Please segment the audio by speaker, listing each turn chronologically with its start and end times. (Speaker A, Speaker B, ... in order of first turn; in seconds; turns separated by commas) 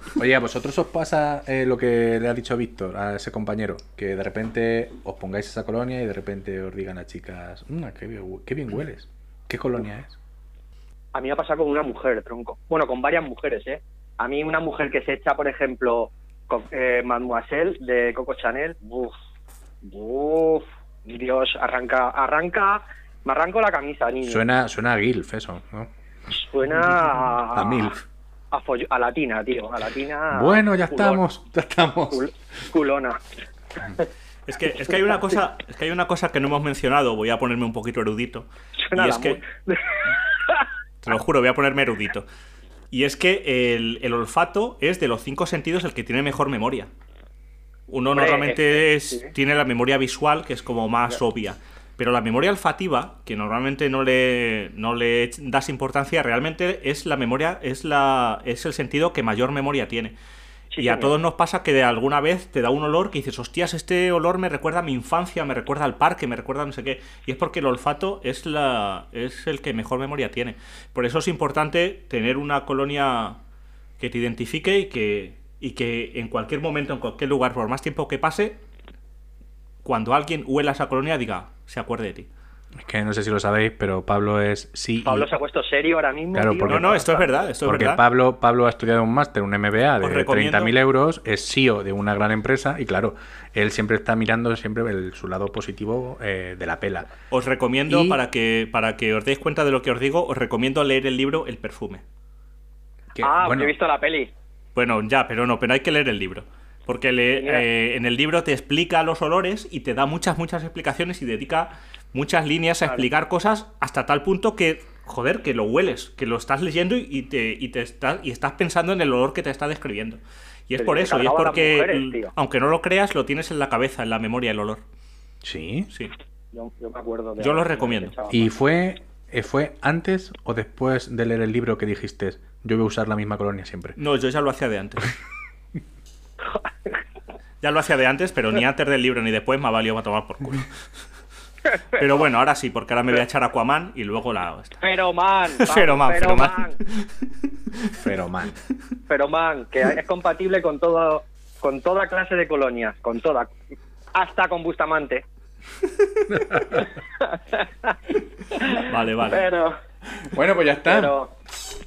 Speaker A: 0.2-10.2, Speaker B: 11.1-19.1, Speaker B: 19.8-24.4, Speaker A: 24.2-25.9, Speaker B: 26.4-28.0, Speaker A: 27.5-28.0, Speaker B: 28.5-31.2, Speaker A: 30.3-32.2, Speaker B: 32.1-33.2, Speaker C: 34.5-39.4, Speaker B: 38.8-40.6, Speaker C: 41.0-42.3, Speaker C: 42.9-46.9, Speaker C: 47.9-60.2, Speaker B: 48.1-49.3, Speaker B: 60.7-61.1, Speaker C: 60.8-73.4, Speaker C: 74.0-78.6, Speaker C: 79.8-82.3, Speaker A: 82.8-85.3, Speaker B: 85.0-87.3, Speaker A: 86.3-87.0, Speaker C: 86.7-88.0, Speaker A: 87.6-97.1, Speaker C: 90.0-90.8, Speaker C: 97.3-102.0, Speaker A: 97.9-98.2, Speaker A: 103.1-103.7, Speaker B: 103.2-104.3, Speaker C: 104.8-124.8, Speaker B: 107.4-107.7, Speaker B: 120.8-122.3, Speaker A: 125.4-125.9, Speaker B: 126.5-128.4, Speaker C: 127.4-128.1, Speaker A: 128.3-134.0, Speaker C: 134.0-135.1, Speaker C: 137.6-140.7, Speaker C: 141.9-144.8, Speaker B: 144.8-146.8, Speaker C: 145.6-147.1, Speaker A: 148.0-148.6, Speaker B: 149.1-153.5, Speaker B: 154.1-155.2, Speaker A: 156.3-156.7, Speaker B: 157.2-157.9, Speaker B: 158.6-159.8, Speaker C: 158.6-159.4, Speaker A: 160.2-161.2, Speaker B: 160.9-161.3